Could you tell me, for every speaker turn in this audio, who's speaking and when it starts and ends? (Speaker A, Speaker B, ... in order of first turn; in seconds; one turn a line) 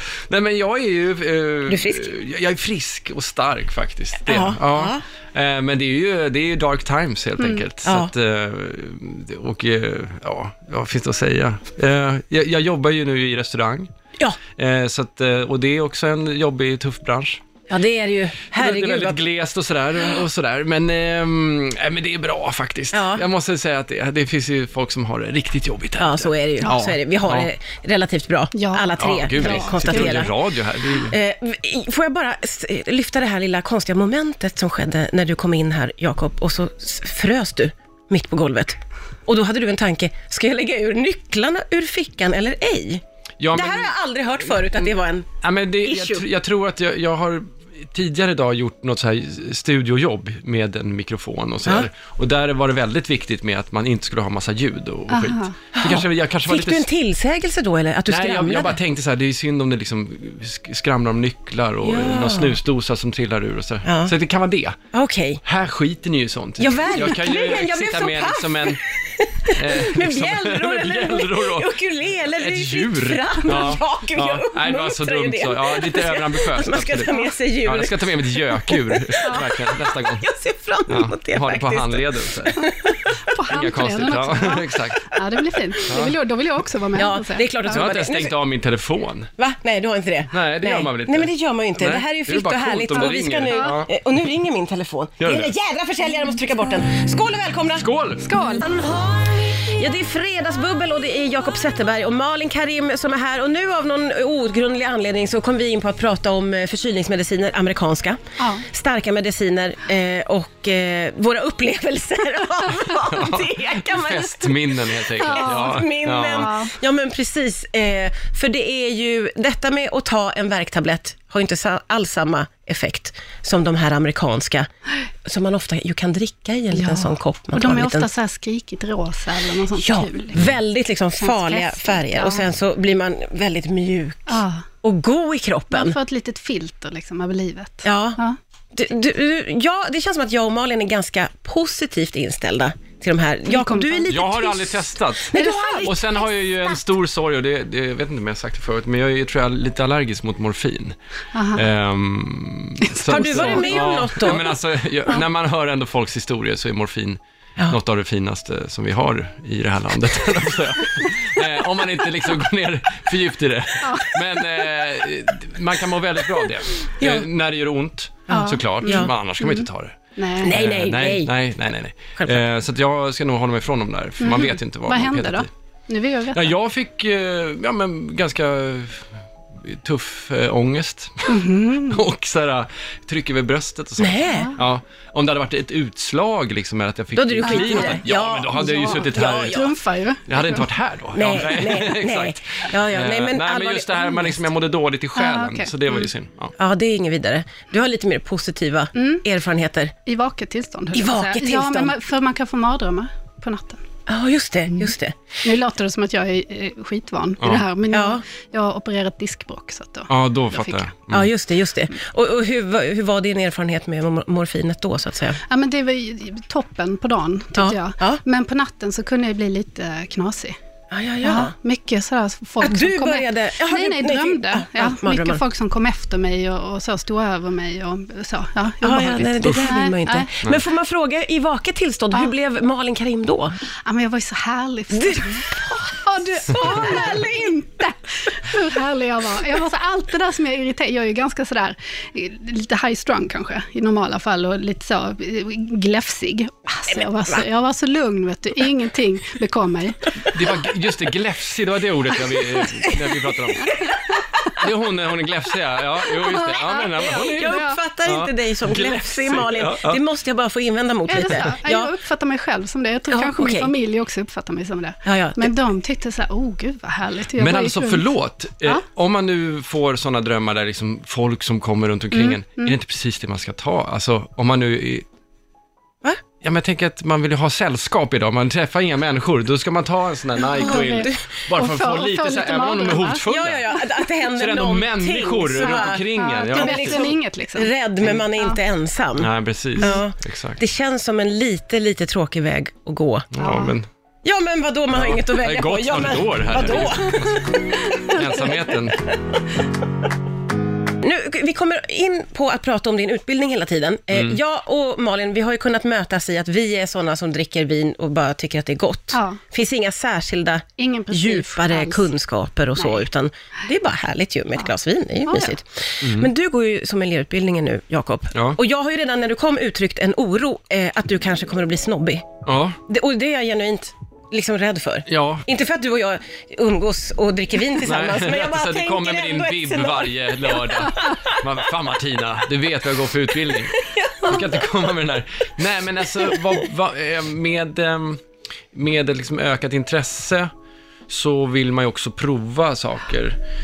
Speaker A: 0.3-13.9
Speaker B: 1.7-2.1
Speaker B: 4.3-5.0
Speaker B: 7.8-8.1
Speaker A: 14.6-17.4
Speaker B: 17.7-19.2
Speaker A: 18.5-27.5
Speaker B: 22.9-23.2
Speaker B: 26.0-30.4
Speaker C: 28.5-30.3
Speaker A: 29.0-31.2
Speaker B: 31.1-45.3
Speaker A: 43.4-43.9
Speaker A: 45.4-56.9
Speaker B: 45.8-46.2
Speaker C: 55.1-55.5
Speaker B: 55.8-58.8
Speaker A: 58.1-64.8
Speaker B: 61.8-62.6
Speaker B: 63.8-64.1
Speaker B: 64.9-65.4
Speaker A: 65.5-68.8
Speaker B: 66.6-83.0
Speaker A: 69.5-71.7
Speaker A: 72.3-80.3
Speaker A: 80.9-82.7
Speaker C: 83.2-87.8
Speaker A: 83.5-85.1
Speaker A: 85.9-86.1
Speaker B: 86.9-88.3
Speaker A: 87.7-89.3
Speaker B: 89.4-97.9
Speaker A: 90.3-93.9
Speaker C: 93.5-93.8
Speaker A: 95.2-95.5
Speaker A: 97.8-98.3
Speaker C: 98.2-98.7
Speaker B: 98.4-124.7
Speaker C: 108.4-108.7
Speaker A: 113.0-116.5
Speaker C: 115.2-116.7
Speaker B: 125.2-128.1
Speaker C: 126.7-130.4
Speaker B: 129.8-136.0
Speaker C: 131.2-132.4
Speaker C: 134.3-134.7
Speaker C: 135.7-138.4
Speaker B: 137.8-138.2
Speaker B: 138.7-146.2
Speaker C: 143.5-144.1
Speaker A: 144.1-150.9
Speaker C: 145.3-145.9
Speaker C: 151.3-151.7
Speaker A: 151.6-175.5
Speaker C: 152.8-153.9
Speaker B: 153.1-154.5
Speaker C: 163.8-164.7
Speaker B: 167.0-167.3
Speaker B: 168.3-169.1
Speaker C: 168.3-170.6
Speaker B: 170.4-171.3
Speaker B: 172.2-172.4
Speaker C: 174.2-176.5
Speaker A: 176.3-179.1
Speaker A: 179.6-189.7
Speaker C: 181.3-182.0
Speaker B: 184.0-184.5
Speaker C: 184.2-184.6
Speaker B: 187.2-189.7
Speaker C: 187.4-188.0
Speaker C: 188.7-190.7
Speaker A: 190.3-196.5
Speaker B: 191.1-194.5
Speaker C: 195.2-196.1
Speaker B: 196.6-199.9
Speaker C: 198.9-199.2
Speaker C: 200.1-203.8
Speaker B: 200.9-201.9
Speaker B: 204.1-205.2
Speaker C: 205.4-210.9
Speaker B: 207.9-208.2
Speaker A: 210.1-211.3
Speaker B: 211.1-215.4
Speaker C: 215.4-220.6
Speaker B: 217.5-218.2
Speaker B: 220.9-221.5
Speaker C: 221.2-230.3
Speaker B: 222.6-225.4
Speaker B: 228.8-233.6
Speaker A: 229.4-229.8
Speaker C: 233.8-250.2
Speaker B: 234.9-237.6
Speaker B: 246.9-247.4
Speaker A: 250.2-253.8
Speaker B: 252.8-253.2
Speaker C: 253.6-254.6
Speaker A: 254.6-260.0
Speaker C: 256.1-257.8
Speaker B: 257.0-261.9
Speaker C: 261.1-268.1
Speaker B: 263.1-263.7
Speaker B: 265.1-265.5
Speaker A: 267.4-275.1
Speaker C: 272.1-272.8
Speaker A: 276.4-283.7
Speaker B: 280.6-281.2
Speaker C: 280.6-283.9
Speaker B: 283.2-293.3
Speaker A: 284.3-287.1
Speaker C: 285.6-287.7
Speaker A: 289.2-290.6
Speaker A: 293.3-293.9
Speaker C: 293.4-293.7
Speaker B: 294.2-299.2
Speaker A: 294.9-297.5
Speaker C: 297.9-298.2
Speaker A: 298.1-299.1
Speaker B: 301.0-331.4
Speaker C: 309.1-309.4
Speaker C: 310.8-312.1
Speaker C: 312.8-313.0
Speaker C: 315.3-315.5
Speaker A: 316.0-316.3
Speaker A: 322.5-322.8
Speaker A: 325.1-325.5
Speaker A: 327.8-338.2
Speaker B: 333.8-334.6
Speaker A: 338.7-340.5
Speaker A: 341.1-343.4